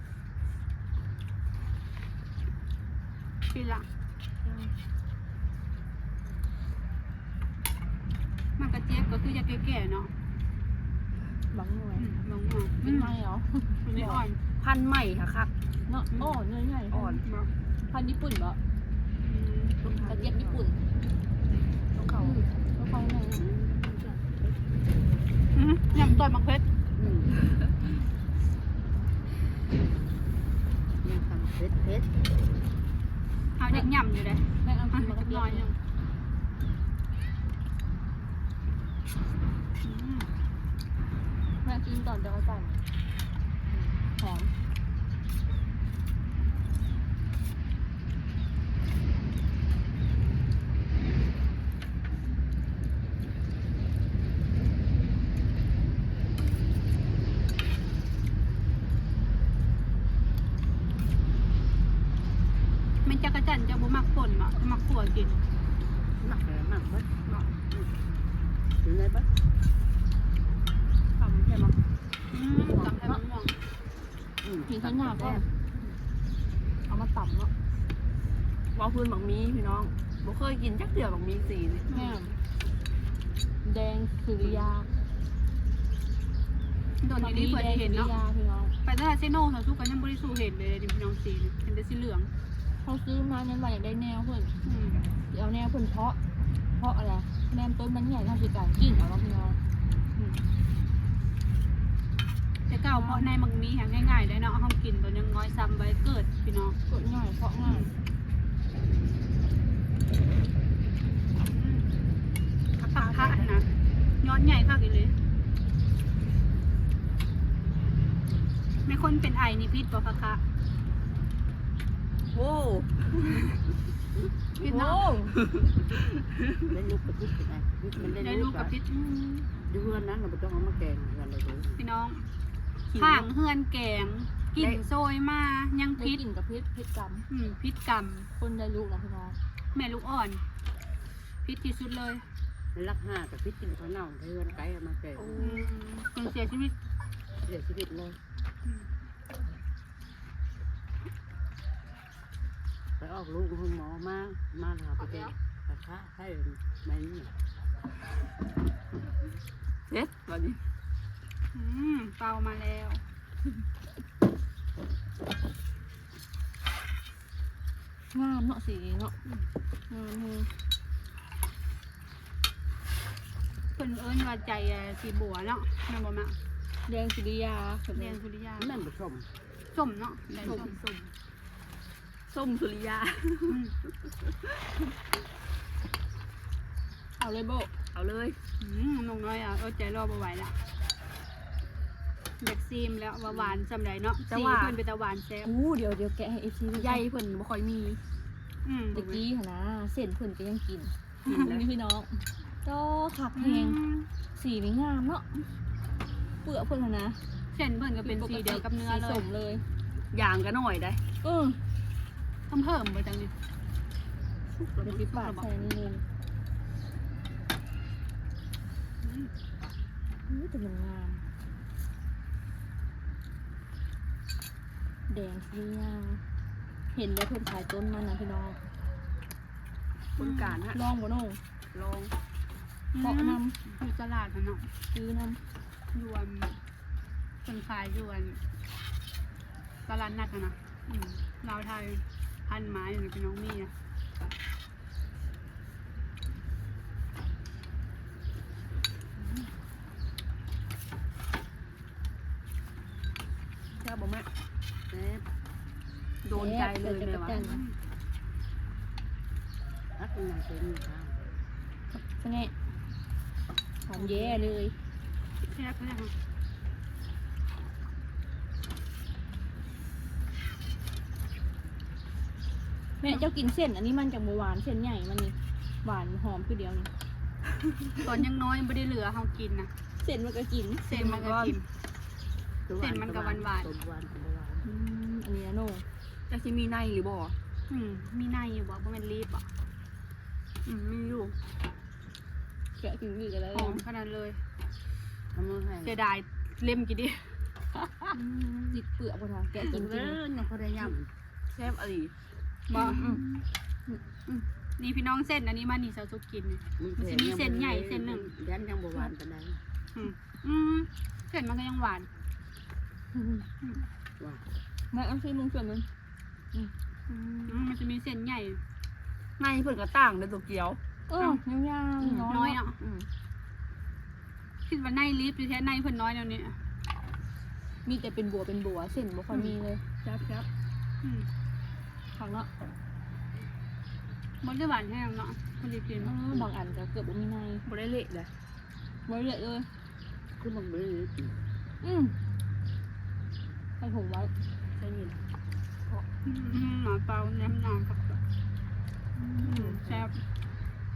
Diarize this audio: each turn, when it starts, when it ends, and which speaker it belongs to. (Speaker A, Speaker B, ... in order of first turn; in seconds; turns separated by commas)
Speaker A: 3.5-3.9, Speaker B: 4.4-4.7, Speaker A: 8.6-10.1, Speaker B: 11.5-12.2, Speaker A: 12.0-13.2, Speaker B: 12.8-14.2, Speaker A: 13.8-14.4, Speaker C: 14.6-15.5, Speaker B: 15.8-17.2, Speaker A: 16.1-16.4, Speaker C: 16.9-17.2, Speaker A: 17.2-17.5, Speaker B: 17.9-18.6, Speaker A: 19.2-19.8, Speaker D: 19.8-20.6, Speaker B: 20.0-20.8, Speaker D: 22.0-22.4, Speaker B: 22.2-23.5, Speaker D: 23.4-24.6, Speaker A: 25.5-26.6, Speaker D: 26.9-27.3, Speaker D: 31.0-32.1, Speaker A: 33.6-35.8, Speaker B: 34.6-35.7, Speaker A: 39.8-40.3, Speaker B: 41.6-42.8, Speaker B: 43.7-44.5, Speaker A: 63.0-65.4, Speaker D: 66.2-67.9, Speaker D: 68.8-69.3, Speaker D: 71.2-71.8, Speaker A: 72.3-73.5, Speaker B: 72.7-73.2, Speaker D: 74.4-75.5, Speaker B: 74.7-75.5, Speaker B: 76.9-77.5, Speaker C: 78.7-81.9, Speaker B: 81.9-82.3, Speaker A: 81.9-82.2, Speaker B: 83.6-84.9, Speaker A: 87.0-88.1, Speaker B: 87.2-88.7, Speaker A: 88.8-92.3, Speaker B: 92.8-94.5, Speaker A: 94.6-95.1, Speaker B: 95.3-96.2, Speaker B: 96.7-99.6, Speaker A: 102.7-106.8, Speaker B: 102.9-103.3, Speaker B: 106.9-107.9, Speaker A: 107.6-107.9, Speaker A: 111.5-111.9, Speaker A: 112.8-115.1, Speaker C: 112.8-113.5, Speaker A: 118.8-120.4, Speaker C: 122.3-123.5, Speaker A: 124.6-125.1, Speaker B: 124.6-125.4, Speaker C: 125.4-125.7, Speaker D: 126.7-128.7, Speaker A: 128.2-129.0, Speaker B: 128.9-129.5, Speaker D: 129.7-131.8, Speaker A: 131.8-132.3, Speaker A: 132.9-136.2, Speaker C: 133.0-133.3, Speaker B: 135.9-137.2, Speaker A: 137.3-138.3, Speaker B: 138.4-139.4, Speaker A: 139.7-140.4, Speaker A: 141.4-142.2, Speaker D: 142.7-145.4, Speaker B: 145.2-145.7, Speaker A: 145.4-146.7, Speaker D: 147.4-148.2, Speaker D: 153.0-157.3, Speaker C: 159.9-160.6, Speaker A: 161.5-163.0, Speaker B: 168.1-169.1, Speaker B: 169.9-170.5, Speaker A: 173.7-176.4, Speaker B: 176.8-178.2, Speaker A: 177.9-178.8, Speaker D: 178.6-179.3, Speaker A: 179.7-180.8, Speaker C: 180.4-180.8, Speaker B: 180.4-181.1, Speaker C: 182.3-183.6, Speaker A: 183.5-183.7, Speaker C: 184.2-184.6, Speaker B: 187.2-187.7, Speaker C: 187.9-188.4, Speaker A: 188.6-190.5, Speaker A: 192.4-195.5, Speaker C: 194.2-194.8, Speaker B: 195.4-197.1, Speaker C: 196.7-198.0, Speaker A: 198.6-199.2, Speaker B: 198.9-203.8, Speaker A: 201.2-201.6, Speaker A: 203.3-204.1, Speaker B: 204.3-205.4, Speaker B: 206.4-207.2, Speaker A: 207.5-209.3, Speaker B: 208.0-209.6, Speaker C: 210.1-211.0, Speaker B: 211.2-211.6, Speaker A: 212.5-213.3, Speaker C: 214.5-215.5, Speaker B: 214.8-216.0, Speaker A: 219.0-219.3, Speaker B: 220.3-221.2, Speaker B: 225.1-226.2, Speaker B: 226.9-228.6, Speaker C: 230.2-230.8, Speaker A: 230.2-230.6, Speaker B: 230.7-231.4, Speaker C: 231.7-232.1, Speaker A: 232.9-234.7, Speaker B: 233.0-233.6, Speaker B: 234.9-235.4, Speaker A: 235.9-236.6, Speaker A: 237.4-238.4, Speaker A: 239.9-243.7, Speaker C: 253.8-254.3, Speaker D: 254.9-255.2, Speaker C: 256.2-257.4, Speaker B: 256.3-257.6, Speaker A: 257.4-257.8, Speaker D: 260.0-261.3, Speaker B: 261.9-262.5, Speaker B: 263.9-264.7, Speaker A: 263.9-264.4, Speaker A: 265.5-266.1, Speaker B: 273.0-276.9, Speaker A: 278.0-279.7, Speaker B: 280.0-280.8, Speaker A: 280.9-281.6, Speaker C: 280.9-281.6, Speaker D: 282.7-284.6, Speaker A: 282.8-283.7, Speaker B: 284.6-285.8, Speaker C: 286.3-287.4, Speaker A: 287.7-289.5, Speaker C: 290.6-291.4, Speaker B: 292.8-293.8, Speaker A: 293.5-294.4, Speaker D: 295.3-296.0, Speaker A: 295.8-297.4, Speaker B: 298.1-300.2, Speaker D: 299.7-301.1, Speaker C: 301.5-302.1, Speaker A: 302.7-303.2, Speaker B: 302.8-303.3, Speaker C: 302.8-303.2, Speaker A: 304.8-308.3, Speaker D: 306.8-309.6, Speaker A: 309.9-312.1, Speaker B: 313.1-313.5, Speaker B: 314.9-315.9, Speaker B: 316.5-317.6, Speaker A: 317.4-318.6, Speaker C: 319.4-320.8, Speaker B: 321.1-322.6, Speaker C: 322.0-323.1, Speaker A: 322.3-322.8, Speaker A: 324.7-326.6, Speaker B: 327.8-329.8, Speaker C: 330.0-330.5, Speaker A: 331.0-331.3, Speaker B: 332.1-332.5, Speaker A: 334.4-336.1, Speaker B: 336.0-337.6, Speaker C: 337.6-338.3, Speaker B: 339.1-339.7, Speaker D: 340.4-341.4, Speaker B: 341.8-342.1, Speaker B: 343.8-344.3, Speaker C: 344.8-345.2, Speaker A: 346.2-348.2, Speaker B: 349.1-349.8, Speaker A: 349.4-350.2